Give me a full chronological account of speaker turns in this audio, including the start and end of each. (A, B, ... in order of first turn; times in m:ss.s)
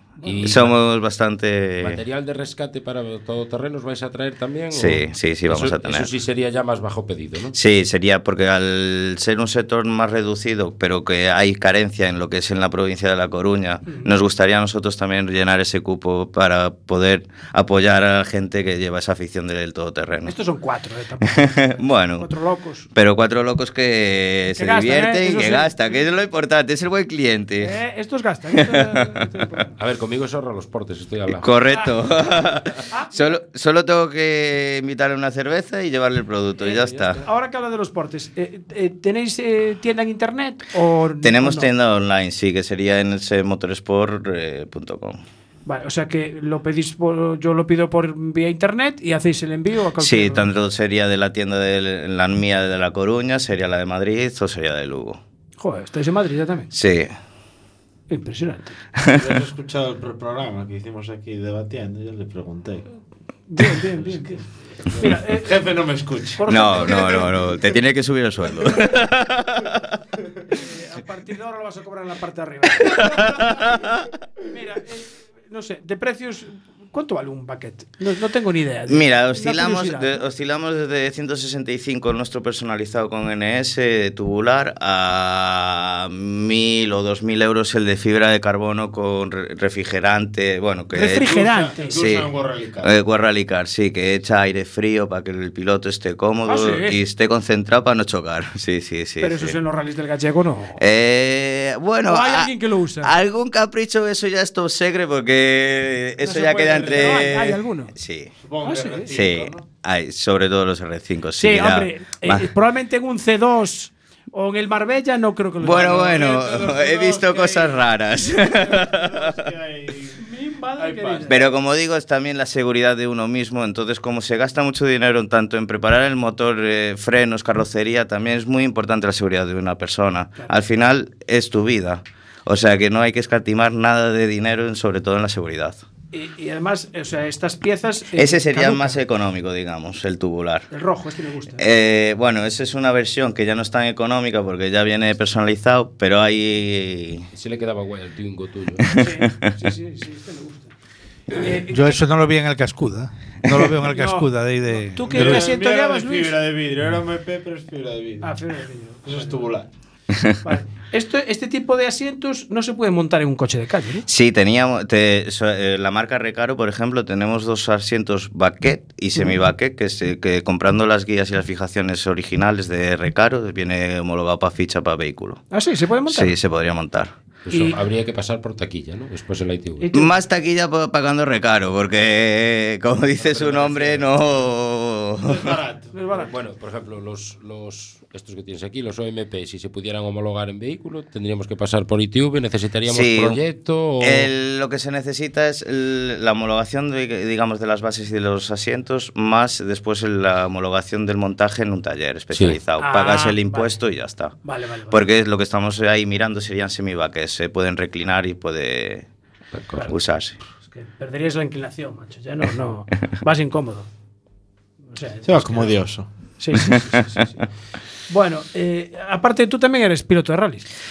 0:00.2-0:00.5 A
0:00.3-0:00.8 B
0:00.4-0:02.0 C
0:01.8-0:07.6 B
0:04.7-0:06.1 C
0:07.5-0:20.4 C
0:13.9-0:14.1 A
0:20.3-0:22.9 A
0:21.2-0:22.3 C
0:22.9-0:27.8 C
0:24.6-0:26.0 A
0:27.6-0:29.8 A
0:28.5-0:29.4 C
0:29.8-0:31.5 B
0:31.3-0:37.2 C
0:31.7-0:32.0 A
0:32.9-0:33.4 A
0:36.6-0:41.7 A
0:41.2-0:45.2 C
0:45.7-0:50.5 A
0:50.0-0:55.2 C
0:55.6-0:56.7 A
0:56.7-0:57.1 C
0:58.1-0:58.8 A
0:59.0-0:59.4 C
0:59.1-1:02.9 D
1:03.5-1:04.4 A
1:04.9-1:06.4 D
1:05.0-1:05.5 A
1:06.4-1:07.8 A
1:06.5-1:09.8 C
1:10.5-1:13.5 A
1:12.8-1:14.0 C
1:14.5-1:20.2 A
1:18.9-1:31.3 C
1:30.9-1:32.0 A
1:31.1-1:32.9 D
1:31.9-1:39.6 C
1:36.5-1:37.0 A
1:39.2-1:40.8 A
1:40.8-1:48.3 C
1:42.1-1:43.1 A
1:46.2-1:47.3 D
1:46.4-1:47.9 A
1:48.4-1:49.6 D
1:48.6-1:49.1 A
1:49.1-1:52.5 C
1:51.4-1:56.2 A
1:55.6-1:59.5 C
1:55.8-2:00.2 D
2:00.2-2:01.4 A
2:00.8-2:01.4 D
2:01.3-2:15.8 C
2:16.1-2:19.0 A
2:18.2-2:20.7 C
2:20.7-2:21.6 A
2:21.6-2:27.3 C
2:27.3-2:28.9 B
2:28.8-2:29.5 C
2:28.9-2:30.7 A
2:31.3-2:32.0 A
2:31.7-2:35.5 E
2:33.4-2:33.7 C
2:33.9-2:36.4 A
2:35.1-2:38.3 D
2:38.2-2:39.5 A
2:39.0-2:39.7 D
2:40.4-2:44.0 A
2:44.1-2:55.4 C
2:55.5-2:56.4 A
2:56.1-2:57.1 C
2:57.5-2:59.9 B
2:57.5-2:57.8 A
2:59.8-3:00.2 A
2:59.9-3:05.6 C
3:03.2-3:04.0 B
3:05.2-3:06.3 D
3:05.9-3:06.3 A
3:06.3-3:14.3 B
3:12.9-3:13.4 C
3:14.0-3:24.4 C
3:22.3-3:22.6 B
3:22.8-3:23.8 A
3:24.4-3:25.0 A
3:24.9-3:29.1 C
3:29.5-3:29.9 B
3:29.9-3:30.4 C
3:30.7-3:33.9 A
3:34.9-3:35.8 A
3:35.2-3:36.1 D
3:36.4-3:37.4 A
3:36.6-3:37.1 C
3:38.1-3:40.7 A